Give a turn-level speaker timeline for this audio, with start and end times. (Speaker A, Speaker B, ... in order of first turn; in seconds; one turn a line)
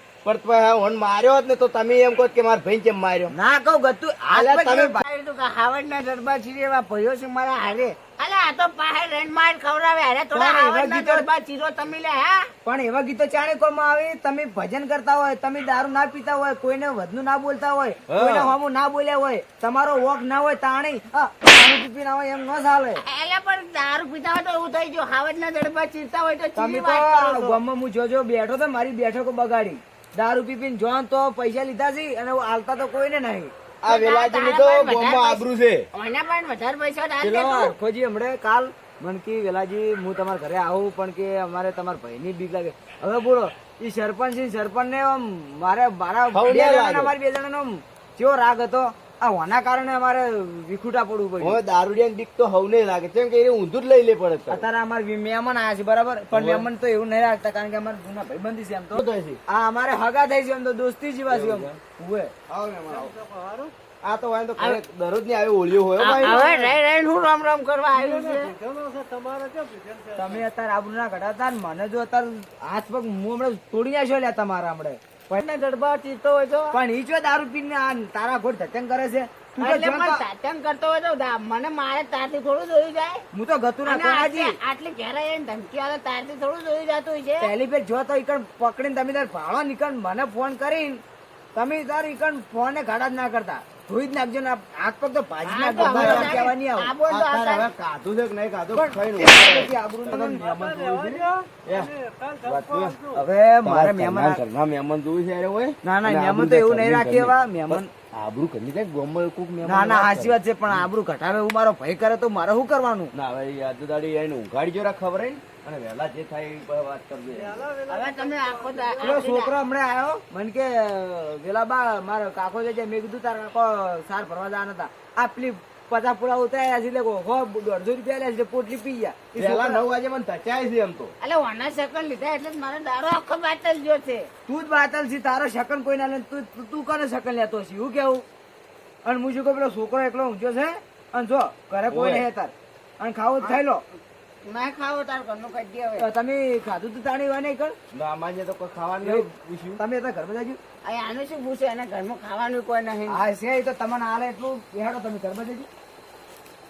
Speaker A: 0.2-3.3
Speaker B: 3.3-5.0
Speaker C: 4.3-12.5
Speaker A: 4.5-4.9
Speaker B: 10.3-11.3
Speaker B: 12.7-23.0
Speaker A: 18.1-18.6
Speaker C: 23.0-27.5
Speaker B: 26.6-33.5
Speaker A: 33.8-35.9
Speaker C: 33.9-37.8
Speaker B: 37.2-51.6
Speaker A: 46.3-47.1
Speaker A: 51.4-54.7
Speaker B: 54.5-62.3
Speaker A: 56.3-56.7
Speaker A: 58.9-59.4
Speaker A: 61.3-61.8
Speaker A: 62.5-63.1
Speaker D: 62.9-63.7
Speaker A: 64.0-66.7
Speaker C: 66.0-68.5
Speaker D: 67.9-70.5
Speaker B: 70.2-75.0
Speaker C: 75.3-76.8
Speaker B: 76.7-80.2
Speaker C: 79.6-83.2
Speaker B: 83.3-84.5
Speaker C: 83.8-87.5
Speaker B: 87.4-91.0
Speaker B: 91.5-96.9
Speaker C: 95.5-97.7
Speaker A: 95.8-96.4
Speaker A: 97.1-101.9
Speaker B: 98.7-100.4
Speaker D: 100.1-103.2
Speaker A: 102.5-103.0
Speaker B: 103.2-104.4
Speaker A: 103.6-110.9
Speaker B: 105.8-107.9
Speaker B: 109.6-113.1
Speaker A: 113.1-117.6
Speaker D: 117.3-119.3
Speaker C: 117.9-119.5
Speaker B: 119.0-129.8
Speaker A: 129.3-131.2
Speaker C: 131.2-134.3
Speaker B: 134.5-138.2
Speaker B: 139.1-143.8
Speaker A: 141.9-142.3
Speaker C: 144.4-146.1
Speaker B: 146.0-147.8
Speaker A: 147.9-149.8
Speaker B: 149.0-149.3
Speaker B: 149.8-150.6
Speaker C: 150.8-153.2
Speaker B: 153.1-155.7